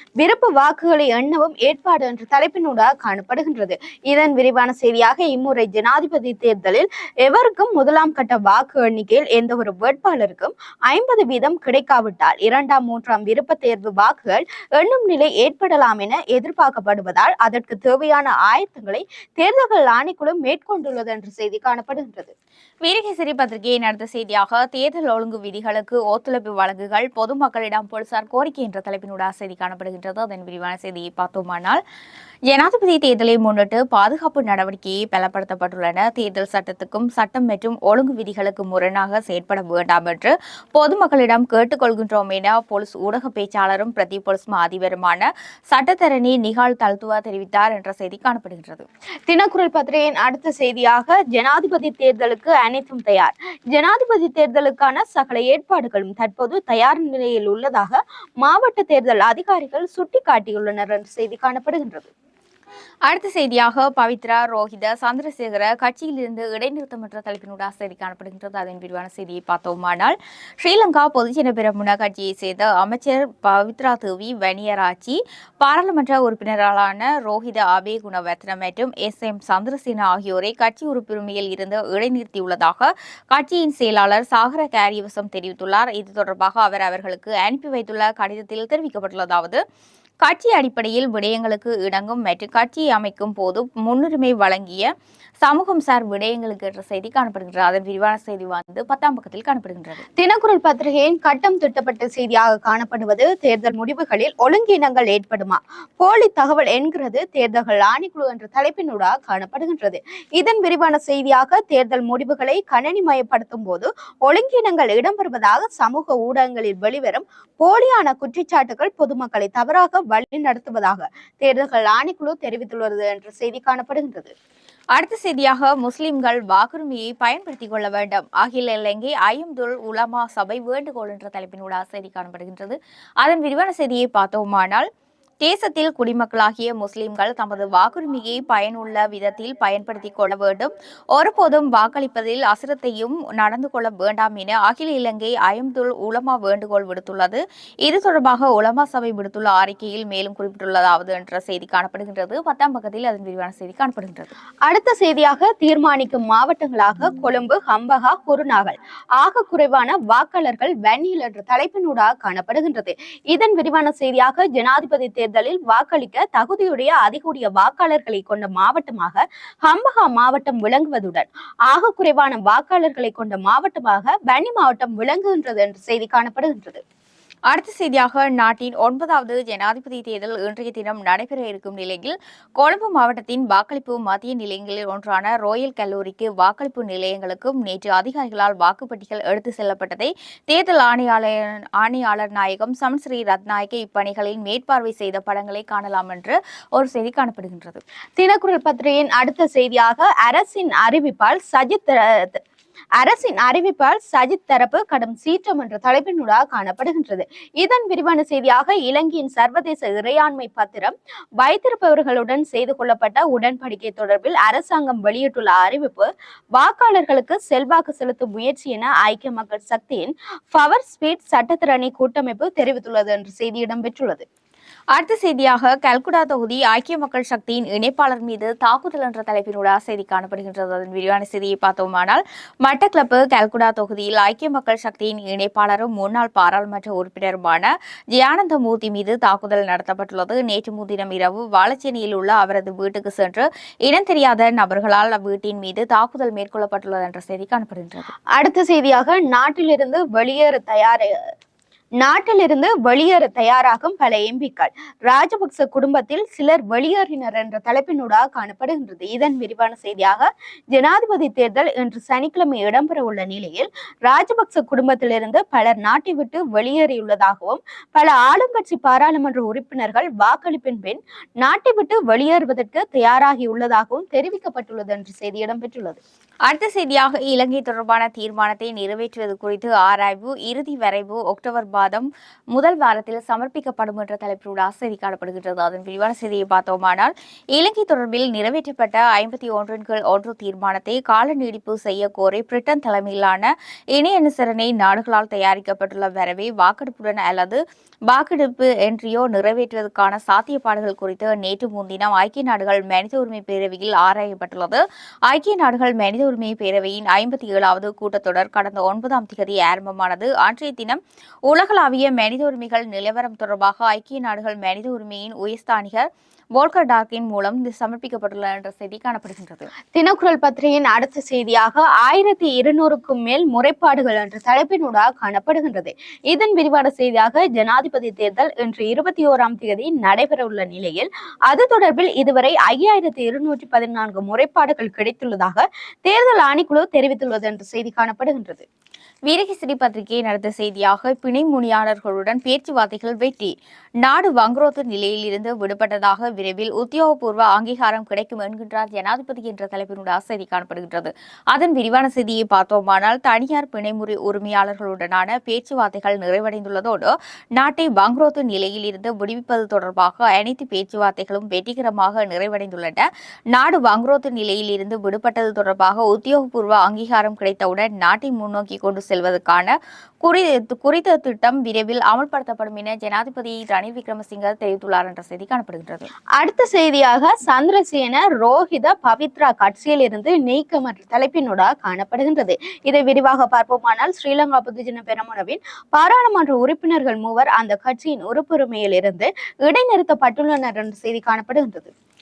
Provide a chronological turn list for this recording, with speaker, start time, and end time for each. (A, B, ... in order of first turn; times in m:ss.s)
0:00.2-0:22.3 A
0:22.8-0:31.8 B
0:32.5-0:48.8 B
0:49.3-1:02.1 A
1:03.1-1:29.6 B
1:30.2-1:40.0 B
1:40.2-2:04.3 A
2:05.0-2:14.9 B
2:15.4-2:34.3 B
2:34.6-2:56.8 A
2:57.5-3:17.8 B
3:18.2-3:22.4 A
3:23.0-3:44.2 A
3:44.9-4:08.1 B
4:08.3-4:11.1 A
4:12.0-4:36.0 A
4:36.5-5:19.7 B
5:19.9-5:38.6 A
5:39.3-6:16.1 B
6:16.4-6:31.9 A